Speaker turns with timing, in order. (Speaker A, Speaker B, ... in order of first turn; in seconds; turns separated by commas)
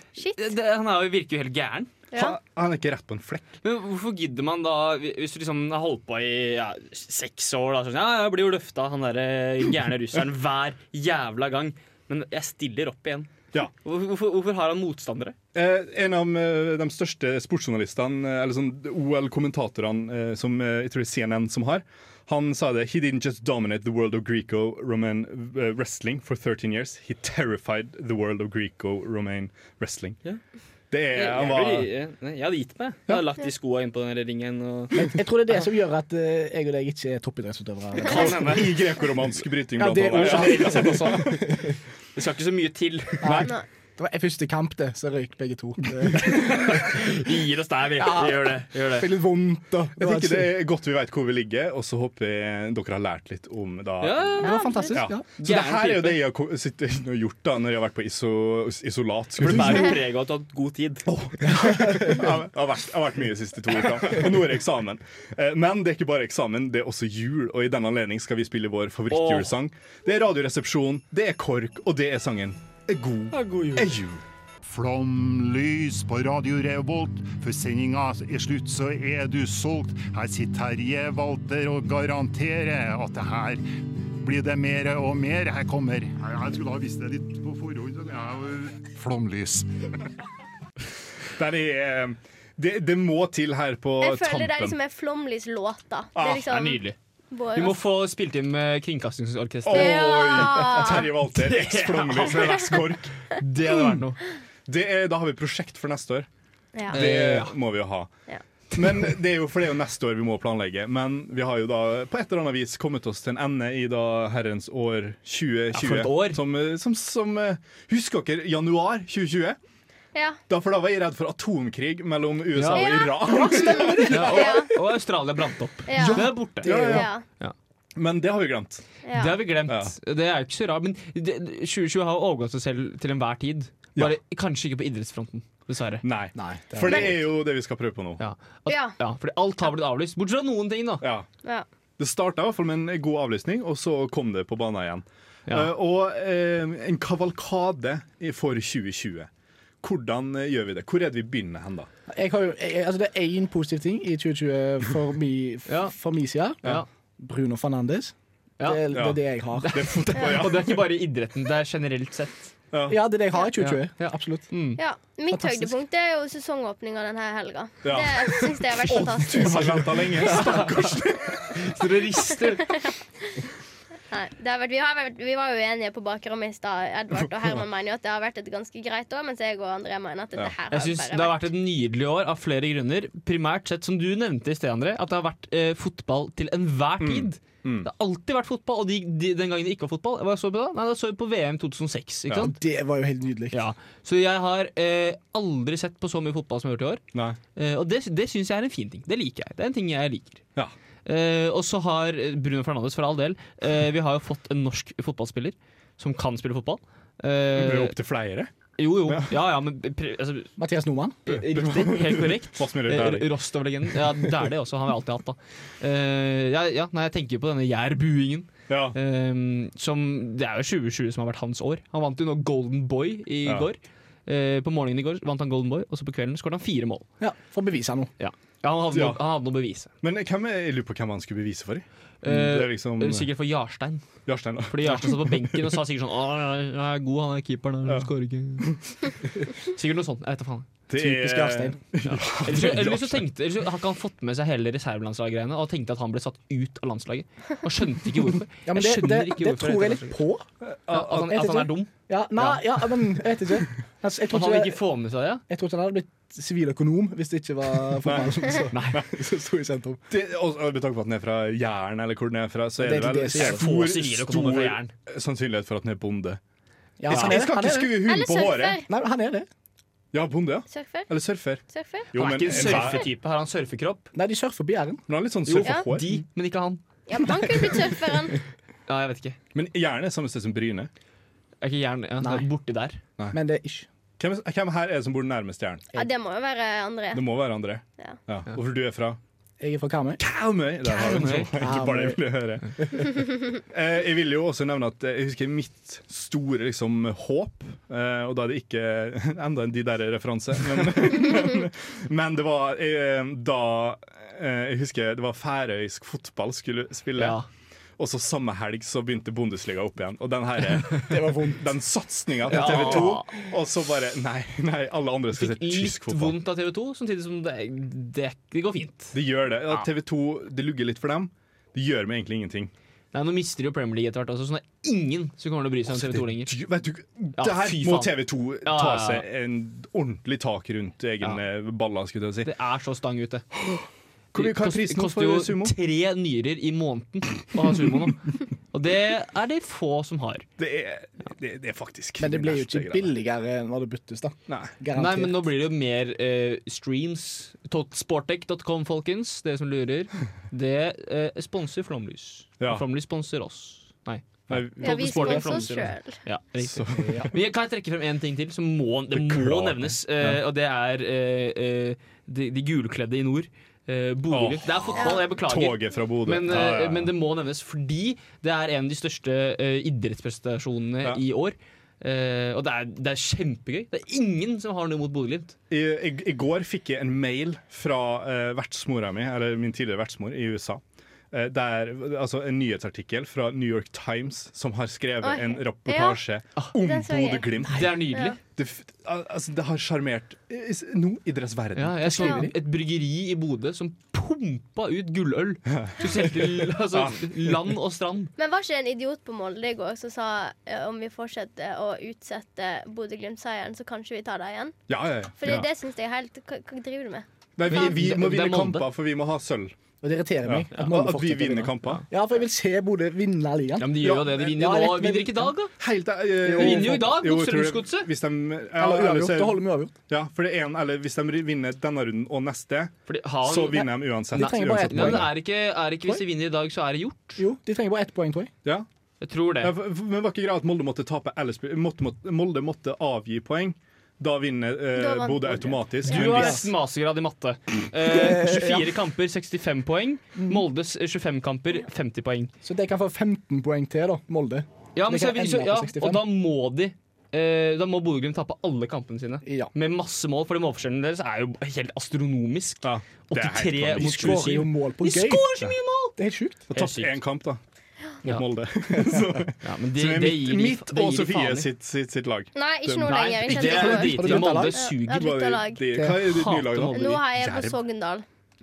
Speaker A: 0.4-2.0, Speaker B: 2.1-3.5, Speaker A: 3.6-15.3, Speaker B: 15.5-30.2, Speaker B: 30.9-31.9, Speaker A: 31.1-35.1, Speaker C: 34.9-38.8, Speaker A: 38.0-38.9, Speaker B: 38.1-41.4, Speaker C: 39.7-41.7, Speaker A: 40.1-41.4, Speaker A: 42.1-43.4, Speaker C: 43.2-47.0, Speaker B: 43.2-43.5, Speaker A: 46.1-49.1, Speaker C: 48.0-50.5, Speaker B: 50.0-54.4, Speaker A: 54.0-56.2, Speaker C: 54.4-55.2, Speaker D: 54.4-54.9, Speaker B: 54.9-59.9, Speaker A: 59.4-61.1, Speaker B: 61.1-74.2, Speaker C: 61.5-62.2, Speaker A: 69.1-69.5, Speaker A: 73.3-73.9, Speaker E: 74.6-83.6, Speaker E: 84.2-89.7, Speaker B: 91.4-94.8, Speaker D: 94.0-97.8, Speaker B: 96.2-96.4, Speaker A: 96.2-97.0, Speaker A: 97.5-104.2, Speaker B: 99.6-104.0, Speaker D: 99.7-101.1, Speaker B: 104.7-106.3, Speaker D: 106.7-107.0, Speaker A: 106.9-107.5, Speaker B: 106.9-108.1, Speaker B: 108.7-119.6, Speaker A: 115.7-116.4, Speaker D: 120.1-120.4, Speaker B: 120.5-124.4, Speaker A: 122.5-123.0, Speaker D: 122.7-124.7, Speaker C: 123.2-124.6, Speaker A: 124.0-127.5, Speaker D: 125.8-127.2, Speaker C: 125.9-127.1, Speaker B: 126.6-127.1, Speaker B: 128.0-128.8, Speaker D: 129.0-129.4, Speaker A: 129.1-136.0, Speaker B: 129.7-129.9, Speaker B: 136.0-138.2, Speaker C: 136.3-137.1, Speaker A: 138.2-141.1, Speaker D: 138.7-138.9, Speaker B: 141.0-141.3, Speaker B: 142.0-149.3, Speaker B: 149.8-151.9, Speaker C: 152.1-156.6, Speaker A: 155.7-155.9, Speaker C: 157.2-159.9, Speaker A: 158.6-159.0, Speaker B: 158.9-160.8, Speaker A: 159.6-162.5, Speaker B: 162.7-163.0, Speaker C: 162.9-164.5, Speaker A: 163.6-164.8, Speaker D: 164.8-169.8, Speaker C: 165.3-165.8, Speaker B: 167.8-171.7, Speaker A: 169.6-171.0, Speaker A: 171.6-172.9, Speaker D: 174.1-181.4, Speaker A: 180.7-192.5, Speaker B: 187.0-187.9, Speaker C: 192.3-193.6, Speaker A: 193.5-197.0, Speaker A: 197.6-200.4, Speaker A: 201.1-207.9, Speaker B: 207.5-208.5, Speaker A: 208.8-210.5, Speaker C: 210.6-211.2, Speaker A: 211.2-227.1, Speaker B: 211.3-213.3, Speaker B: 218.7-218.9, Speaker C: 227.2-228.1, Speaker A: 228.2-229.9, Speaker B: 228.9-229.2, Speaker B: 230.0-233.3, Speaker A: 232.2-234.0, Speaker B: 234.2-235.8, Speaker A: 234.7-238.7, Speaker A: 239.7-240.7, Speaker B: 240.9-243.2, Speaker C: 240.9-241.8, Speaker A: 242.3-250.2, Speaker C: 248.6-250.4, Speaker B: 250.6-251.4, Speaker A: 250.9-252.7, Speaker C: 251.1-254.8, Speaker A: 254.3-255.4, Speaker C: 255.5-260.0, Speaker B: 258.0-259.1, Speaker A: 258.7-259.0, Speaker B: 260.1-266.4, Speaker C: 262.8-263.9, Speaker A: 263.3-264.9, Speaker C: 267.0-268.0, Speaker B: 267.1-268.8, Speaker A: 267.1-267.4, Speaker D: 268.0-268.9, Speaker C: 268.9-269.5, Speaker B: 270.1-273.0, Speaker D: 270.7-271.1, Speaker D: 271.6-272.1, Speaker A: 272.1-274.1, Speaker D: 272.6-273.1, Speaker C: 274.1-275.0, Speaker B: 275.1-276.1, Speaker A: 275.4-276.8, Speaker D: 277.1-278.4, Speaker A: 278.9-279.4, Speaker B: 279.5-280.9, Speaker A: 281.6-283.0, Speaker C: 282.2-282.5, Speaker C: 283.3-283.9, Speaker B: 284.2-285.9, Speaker D: 285.9-287.2, Speaker B: 287.1-289.2, Speaker C: 289.6-290.2, Speaker B: 290.2-307.4, Speaker C: 290.8-292.2, Speaker A: 291.0-291.5, Speaker A: 307.2-307.4, Speaker B: 308.0-316.4, Speaker C: 311.1-311.7, Speaker A: 312.4-313.5, Speaker C: 312.5-313.2, Speaker A: 315.3-319.9, Speaker B: 319.1-322.7, Speaker A: 323.1-326.5, Speaker B: 325.9-332.5, Speaker A: 327.4-329.2, Speaker A: 332.4-333.4, Speaker B: 334.3-335.7, Speaker A: 334.3-340.4, Speaker B: 340.6-343.1, Speaker C: 342.2-345.4, Speaker A: 344.9-375.6, Speaker B: 354.5-355.6, Speaker D: 354.8-356.2, Speaker C: 355.2-355.7, Speaker B: 356.6-357.3, Speaker B: 359.1-360.4, Speaker B: 364.3-367.1, Speaker D: 364.9-365.2, Speaker B: 375.7-392.4, Speaker D: 385.2-388.4, Speaker A: 387.7-388.4, Speaker A: 391.8-398.3, Speaker C: 392.0-392.6, Speaker B: 395.8-397.7, Speaker D: 398.4-404.7, Speaker B: 404.9-405.7, Speaker D: 405.4-407.2, Speaker B: 407.6-409.7, Speaker A: 407.7-408.9, Speaker C: 410.0-415.5, Speaker B: 410.4-412.0, Speaker A: 413.8-415.7, Speaker B: 414.0-414.7, Speaker B: 415.8-425.3, Speaker C: 416.4-417.2, Speaker A: 416.5-418.1, Speaker C: 418.8-419.9, Speaker A: 423.1-427.4, Speaker C: 424.3-425.4, Speaker C: 427.4-428.5, Speaker A: 429.2-429.7, Speaker B: 429.6-436.7, Speaker D: 434.9-436.2, Speaker A: 436.1-442.5, Speaker C: 436.1-436.7, Speaker C: 438.0-439.0, Speaker C: 440.4-440.6, Speaker C: 442.6-446.3, Speaker A: 444.9-456.1, Speaker C: 449.4-449.7, Speaker B: 452.8-454.5, Speaker C: 453.9-455.5, Speaker C: 456.2-456.6, Speaker A: 456.7-457.1, Speaker B: 456.7-457.6, Speaker B: 458.2-463.9, Speaker C: 459.0-459.4, Speaker A: 459.6-461.6, Speaker D: 462.5-465.8, Speaker A: 463.1-465.4, Speaker C: 463.5-464.9, Speaker B: 465.1-467.8, Speaker C: 465.9-466.3, Speaker A: 466.0-467.1, Speaker D: 466.9-468.2